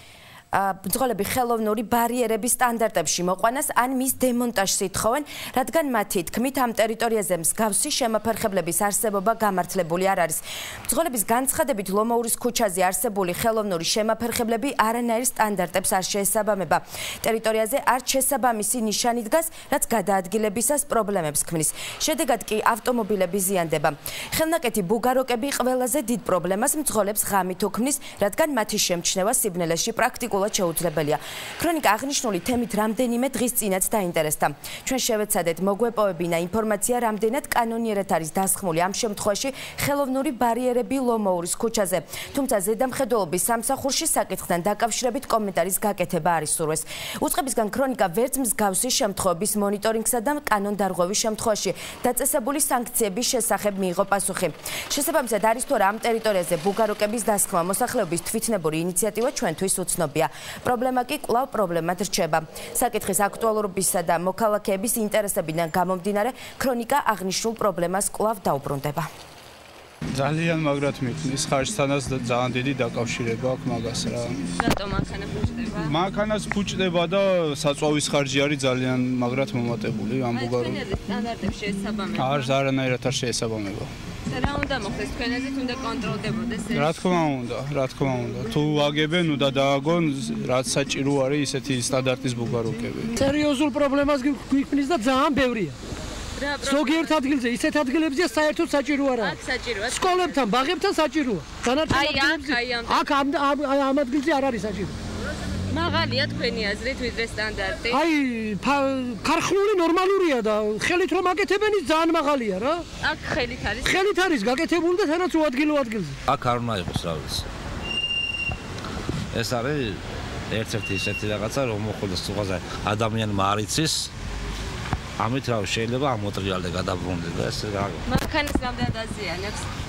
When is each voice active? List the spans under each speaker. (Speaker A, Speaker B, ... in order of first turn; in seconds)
Speaker A: 0.5-69.1
Speaker B: 70.2-74.4, 75.8-80.8, 82.2-83.9, 86.7-93.1
Speaker C: 74.6-75.9, 80.3-82.5, 84.3-86.9, 96.4-97.2, 99.2-100.5, 101.9-103.1, 105.7-108.0, 113.0-114.0, 128.1-129.6
Speaker D: 93.1-95.8, 96.6-105.0, 107.9-112.8, 113.8-116.2
Speaker E: 116.3-117.5, 119.3-120.0, 120.5-124.1, 125.2-128.0